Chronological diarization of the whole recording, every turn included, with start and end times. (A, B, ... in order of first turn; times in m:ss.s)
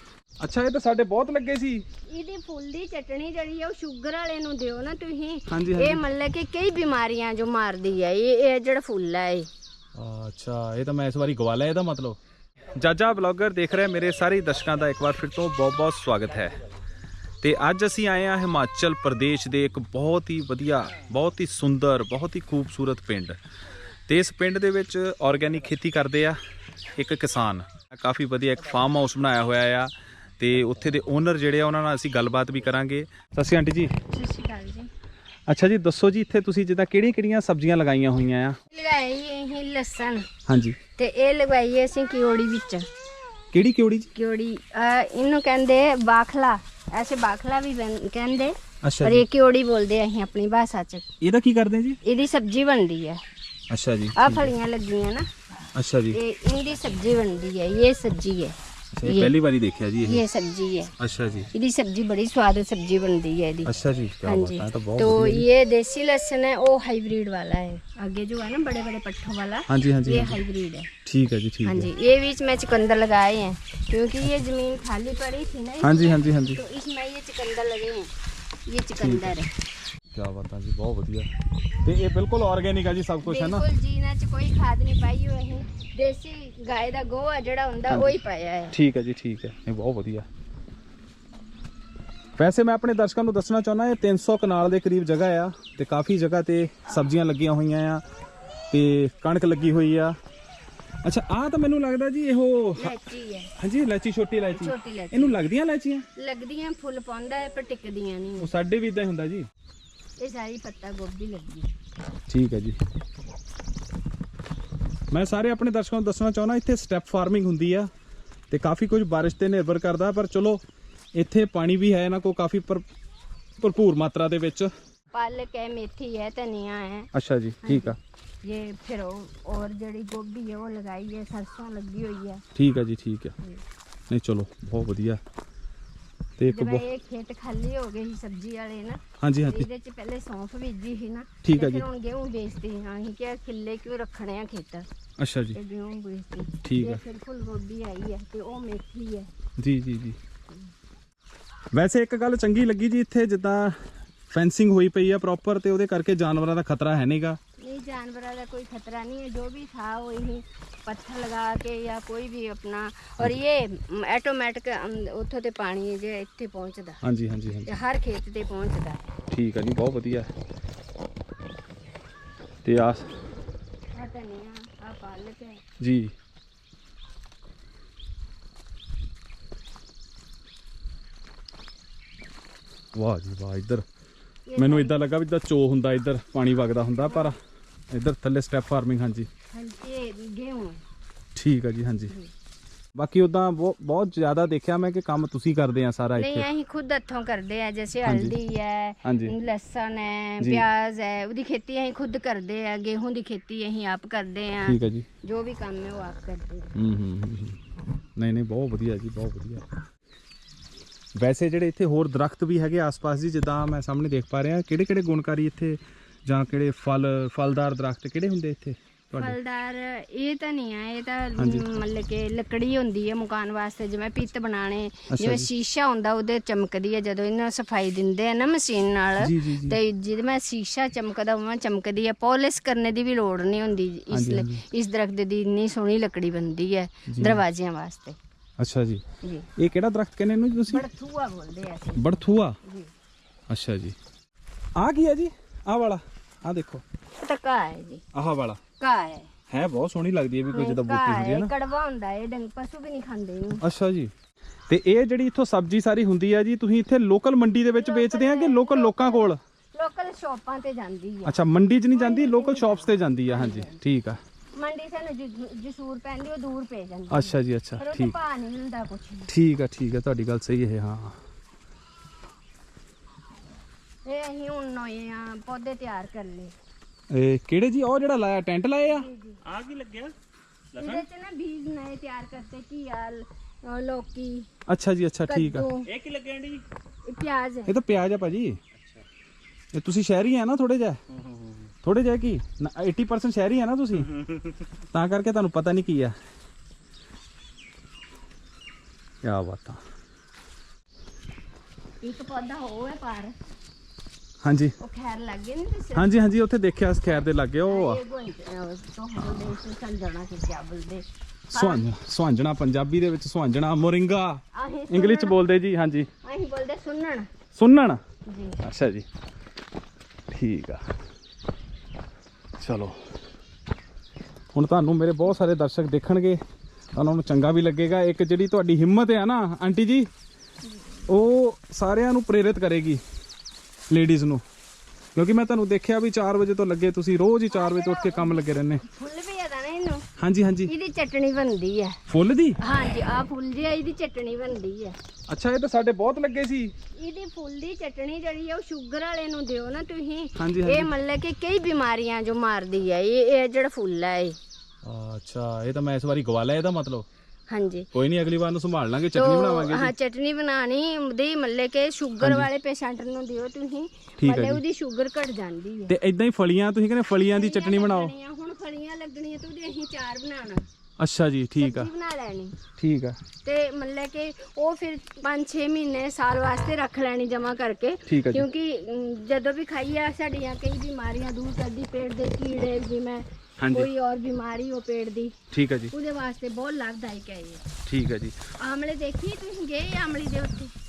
0:00.4-0:01.8 A
0:02.1-0:09.5 B
0:05.5-0:06.0 A
0:09.9-0:12.2 A
0:12.7-0:16.6 A
0:17.4-0:23.4 A
0:24.1-0:26.4 A
0:27.0-0:33.9 A
0:34.1-0:34.9 B
0:35.5-0:38.6 A
0:38.7-0:40.2 B
0:40.5-0:40.8 A
0:41.0-0:42.9 B
0:43.5-0:44.1 A
0:44.1-0:51.0 B
0:48.8-0:49.2 A
0:51.2-0:52.0 A
0:52.0-0:53.2 B
0:53.7-0:54.5 A
0:54.2-0:55.3 B
0:55.7-0:56.2 A
0:56.1-0:59.3 B
0:58.9-1:00.2 A
1:00.0-1:00.9 B
1:01.0-1:01.5 A
1:01.5-1:03.7 B
1:03.6-1:05.5 A
1:04.2-1:10.9 B
1:09.7-1:10.4 A
1:11.0-1:11.9 A
1:11.6-1:18.1 B
1:15.8-1:16.6 A
1:18.7-1:19.5 B
1:19.0-1:19.3 A
1:20.1-1:21.3 A
1:21.8-1:23.6 A
1:23.2-1:28.8 B
1:27.9-1:28.2 A
1:28.7-1:30.3 A
1:32.4-1:38.0 A
1:38.7-1:40.1 A
1:41.0-1:43.0 A
1:42.8-1:43.5 B
1:43.6-1:46.1 A
1:44.5-1:45.4 B
1:46.2-1:48.5 B
1:48.4-1:49.5 A
1:50.2-1:51.7 B
1:52.3-1:52.8 A
1:55.1-1:57.9 A
1:58.5-2:00.6 A
2:01.1-2:02.8 A
2:03.6-2:04.7 A
2:05.1-2:07.1 B
2:07.1-2:08.0 A
2:07.6-2:12.4 B
2:12.5-2:13.3 A
2:14.1-2:15.2 A
2:16.4-2:16.8 A
2:16.5-2:24.9 B
2:19.2-2:19.7 A
2:21.4-2:21.8 A
2:25.2-2:25.6 A
2:25.5-2:29.3 B
2:26.6-2:27.0 A
2:29.6-2:30.2 A
2:31.7-2:37.4 A
2:37.6-2:47.0 B
2:47.0-2:47.7 A
2:47.6-2:49.1 B
2:49.3-2:50.3 A
2:52.6-2:53.1 A
2:53.9-2:55.6 B
2:55.8-2:56.1 A
3:02.9-3:03.8 A
3:04.5-3:04.9 B
3:04.6-3:07.4 A
3:07.9-3:09.3 A
3:09.5-3:10.8 B
3:11.4-3:12.1 A
3:12.9-3:16.5 A
3:16.2-3:26.7 B
3:18.0-3:18.4 A
3:19.0-3:19.4 A
3:20.4-3:20.7 A
3:24.6-3:25.1 A
3:26.8-3:27.6 A
3:28.2-3:29.7 A
3:31.2-3:39.4 A
3:39.2-3:58.2 B
3:41.4-3:41.7 A
3:45.1-3:45.5 A
3:49.2-3:49.8 A
3:54.1-3:54.6 A
3:57.1-3:57.4 A
3:58.6-3:59.0 A
3:59.2-3:59.5 B
3:59.6-4:00.9 A
4:00.7-4:02.9 B
4:02.0-4:02.6 A
4:03.5-4:04.0 A
4:04.8-4:06.8 A
4:07.2-4:08.0 B
4:08.1-4:08.6 A
4:08.8-4:09.3 B
4:09.5-4:11.5 A
4:10.5-4:13.6 B
4:13.6-4:14.1 A
4:14.7-4:19.4 A
4:17.7-4:21.3 B
4:21.2-4:24.2 A
4:21.9-4:23.8 B
4:24.5-4:29.3 B
4:27.1-4:28.1 A
4:29.3-4:31.2 A
4:34.0-4:36.5 B
4:37.1-4:39.1 A
4:38.9-4:39.4 B
4:39.4-4:40.1 C
4:40.7-4:41.0 C
4:40.8-4:44.5 B
4:44.7-4:45.7 A
4:45.3-4:45.9 B
4:45.8-4:46.6 C
4:47.0-4:47.8 B
4:47.7-4:48.6 A
4:49.7-4:51.0 A
4:51.3-4:51.6 C
4:51.8-4:54.1 A
4:54.9-4:56.2 A
4:59.2-4:59.8 A
5:02.0-5:03.3 B
5:04.4-5:04.8 A
5:04.8-5:06.2 B
5:05.9-5:08.0 A
5:07.6-5:11.8 B
5:11.5-5:16.1 A
5:14.5-5:15.4 B
5:16.2-5:17.3 B
5:17.5-5:18.0 A
5:18.2-5:18.6 B
5:18.6-5:19.0 A
5:20.3-5:20.8 A
5:22.6-5:23.1 A
5:24.5-5:26.4 A
5:26.9-5:30.1 A
5:31.1-5:33.0 A
5:33.9-5:34.4 A
5:35.1-5:38.8 A
5:37.5-5:40.0 B
5:40.2-5:40.7 A
5:40.6-5:42.0 B
5:42.1-5:42.6 A
5:42.6-5:45.0 B
5:45.3-5:46.7 A
5:46.9-5:54.4 B
5:50.4-5:50.9 A
5:54.8-5:57.0 A
5:57.5-5:57.9 B
5:57.9-5:59.9 A
5:59.1-6:05.9 B
6:02.2-6:02.5 A
6:04.2-6:04.6 A
6:05.9-6:08.1 A
6:07.3-6:10.7 B
6:11.0-6:11.9 A
6:11.6-6:12.6 B
6:12.8-6:13.2 A
6:13.4-6:25.4 B
6:18.1-6:18.4 A
6:23.6-6:23.9 A
6:25.5-6:25.9 A
6:25.9-6:27.6 B
6:27.8-6:28.4 A
6:28.6-6:30.7 B